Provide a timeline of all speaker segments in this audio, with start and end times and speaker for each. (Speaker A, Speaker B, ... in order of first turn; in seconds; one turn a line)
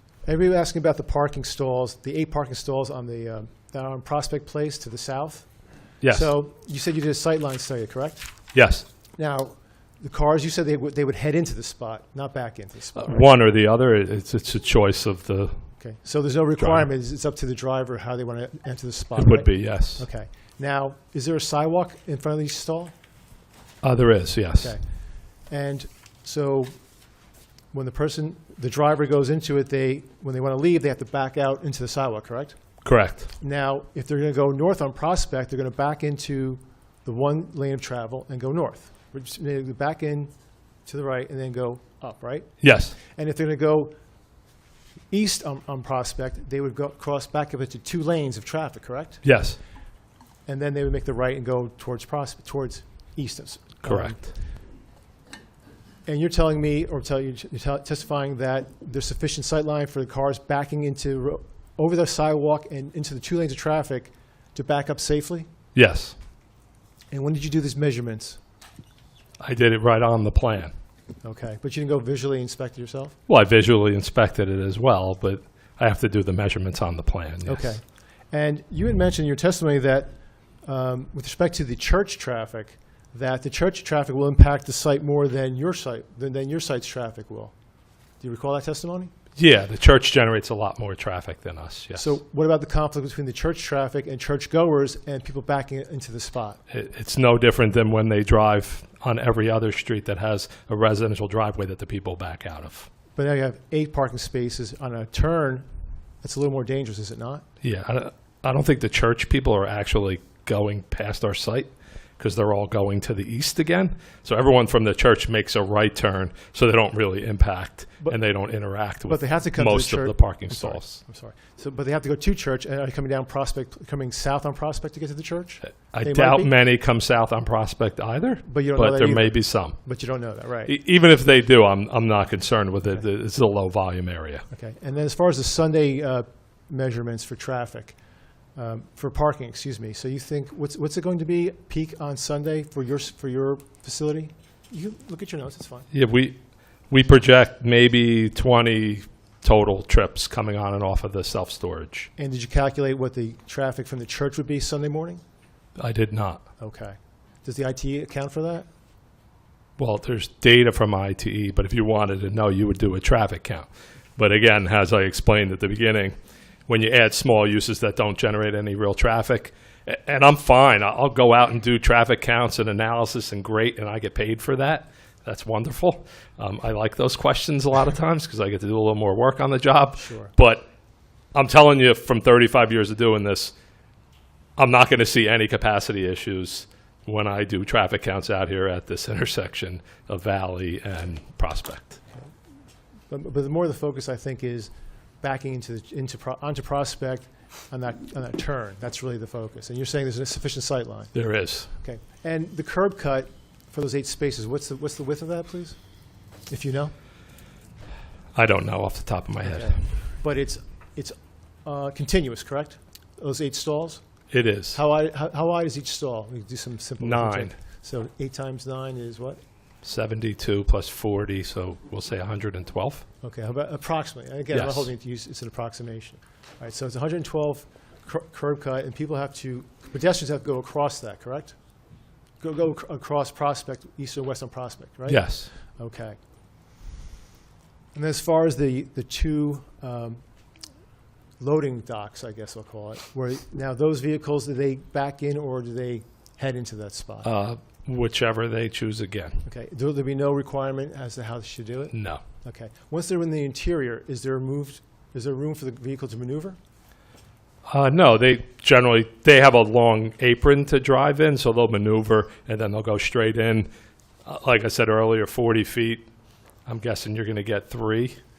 Speaker A: 0.2-5.5
Speaker B: 6.0-6.3
Speaker A: 6.1-8.3
Speaker B: 8.5-8.8
Speaker A: 9.2-13.3
Speaker B: 12.9-15.6
Speaker A: 15.8-22.9
Speaker B: 16.6-16.8
Speaker B: 19.1-20.0
Speaker B: 23.8-24.8
Speaker A: 25.5-26.7
Speaker A: 27.7-32.5
Speaker B: 32.8-33.3
Speaker A: 33.4-40.3
Speaker A: 40.9-43.9
Speaker B: 42.6-43.0
Speaker A: 45.1-49.2
Speaker B: 49.2-49.6
Speaker A: 50.5-54.4
Speaker B: 53.8-54.3
Speaker A: 56.0-65.5
Speaker B: 65.7-66.1
Speaker A: 67.1-68.4
Speaker B: 69.4-70.7
Speaker A: 71.2-73.2
Speaker B: 73.3-77.8
Speaker A: 77.4-87.5
Speaker A: 88.2-89.1
Speaker B: 89.3-92.1
Speaker A: 92.0-96.6
Speaker B: 96.7-102.9
Speaker A: 103.2-105.7
Speaker A: 106.2-107.4
Speaker B: 107.6-121.0
Speaker A: 119.1-126.5
Speaker B: 125.6-129.8
Speaker A: 128.4-130.7
Speaker B: 130.7-134.4
Speaker A: 134.5-137.9
Speaker A: 138.6-145.9
Speaker B: 145.9-146.4
Speaker B: 146.9-152.1
Speaker A: 152.2-155.2
Speaker B: 155.8-156.4
Speaker A: 156.6-158.7
Speaker B: 159.8-166.1
Speaker B: 166.7-180.7
Speaker A: 180.0-180.3
Speaker B: 181.3-183.5
Speaker B: 184.6-192.0
Speaker A: 193.1-205.8
Speaker B: 201.1-201.7
Speaker A: 206.5-206.9
Speaker B: 208.3-209.8
Speaker A: 209.4-214.0
Speaker B: 214.3-214.8
Speaker A: 214.7-219.4
Speaker B: 217.0-217.6
Speaker B: 219.8-223.0
Speaker A: 223.2-231.6
Speaker B: 224.5-224.9
Speaker A: 232.4-236.2
Speaker B: 235.1-235.5
Speaker A: 237.9-240.2
Speaker A: 241.4-247.3
Speaker B: 247.2-249.4
Speaker A: 249.4-256.6
Speaker B: 251.9-252.2
Speaker B: 257.7-263.7
Speaker B: 264.2-266.1
Speaker B: 266.6-268.2